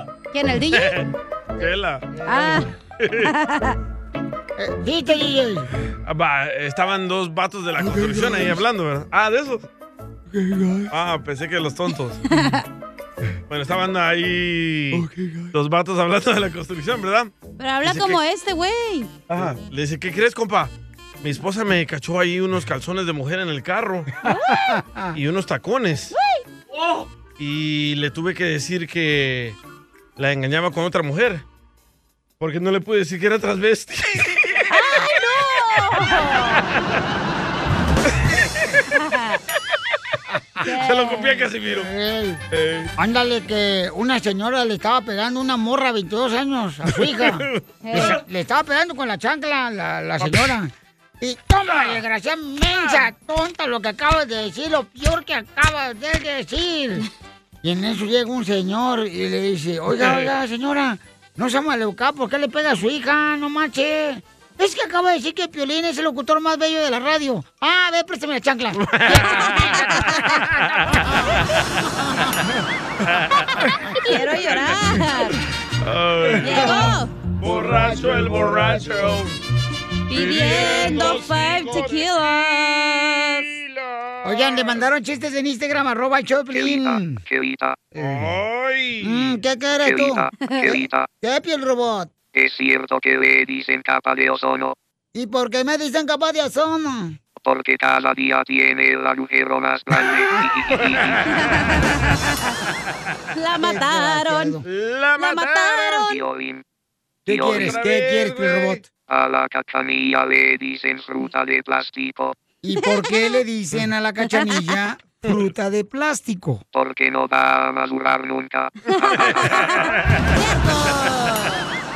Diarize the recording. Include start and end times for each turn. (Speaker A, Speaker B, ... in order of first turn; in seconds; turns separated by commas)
Speaker A: 0.3-1.0, Speaker B: 0.7-2.1, Speaker C: 2.1-2.6, Speaker A: 2.3-2.7, Speaker B: 3.0-3.3, Speaker A: 3.3-3.8, Speaker C: 4.6-5.7, Speaker B: 6.1-9.7, Speaker B: 10.9-12.2, Speaker A: 12.3-12.6, Speaker B: 13.5-17.3, Speaker A: 17.6-19.1, Speaker B: 17.8-18.2, Speaker B: 19.3-20.7, Speaker B: 21.2-24.1, Speaker C: 24.2-25.2, Speaker B: 25.1-26.1, Speaker B: 27.4-29.6, Speaker B: 30.2-31.4, Speaker B: 32.4-34.6, Speaker A: 34.7-36.7, Speaker A: 38.9-39.4, Speaker A: 40.6-41.5, Speaker B: 40.7-41.9, Speaker C: 41.8-42.4, Speaker B: 42.5-42.9, Speaker C: 43.0-57.1, Speaker B: 46.9-48.2, Speaker A: 47.8-48.2, Speaker B: 51.7-52.0, Speaker B: 52.8-53.0, Speaker C: 57.6-71.1, Speaker B: 60.0-60.3, Speaker B: 68.8-71.8, Speaker A: 69.6-70.2, Speaker B: 73.1-73.9, Speaker A: 74.0-75.4, Speaker B: 75.8-79.4, Speaker A: 76.4-77.1, Speaker C: 76.5-76.9, Speaker C: 77.5-79.1, Speaker A: 80.1-83.5, Speaker B: 80.1-84.8, Speaker C: 84.2-87.2, Speaker D: 86.5-87.9, Speaker C: 88.0-88.3, Speaker B: 88.0-89.4, Speaker C: 89.0-90.3, Speaker D: 89.8-91.1, Speaker A: 90.4-90.8, Speaker C: 91.2-92.1, Speaker D: 92.3-94.8, Speaker C: 95.2-97.2, Speaker D: 97.4-101.4, Speaker B: 100.8-101.2, Speaker A: 101.5-101.9, Speaker A: 103.3-104.6, Speaker C: 103.6-104.6, Speaker B: 104.6-106.0, Speaker A: 105.2-106.2, Speaker D: 106.0-106.6, Speaker C: 107.3-108.8, Speaker D: 107.3-107.8, Speaker B: 107.4-108.9, Speaker D: 109.1-112.4, Speaker C: 112.6-116.6, Speaker A: 112.8-113.4, Speaker D: 116.7-119.6, Speaker A: 118.9-121.7, Speaker B: 119.1-120.3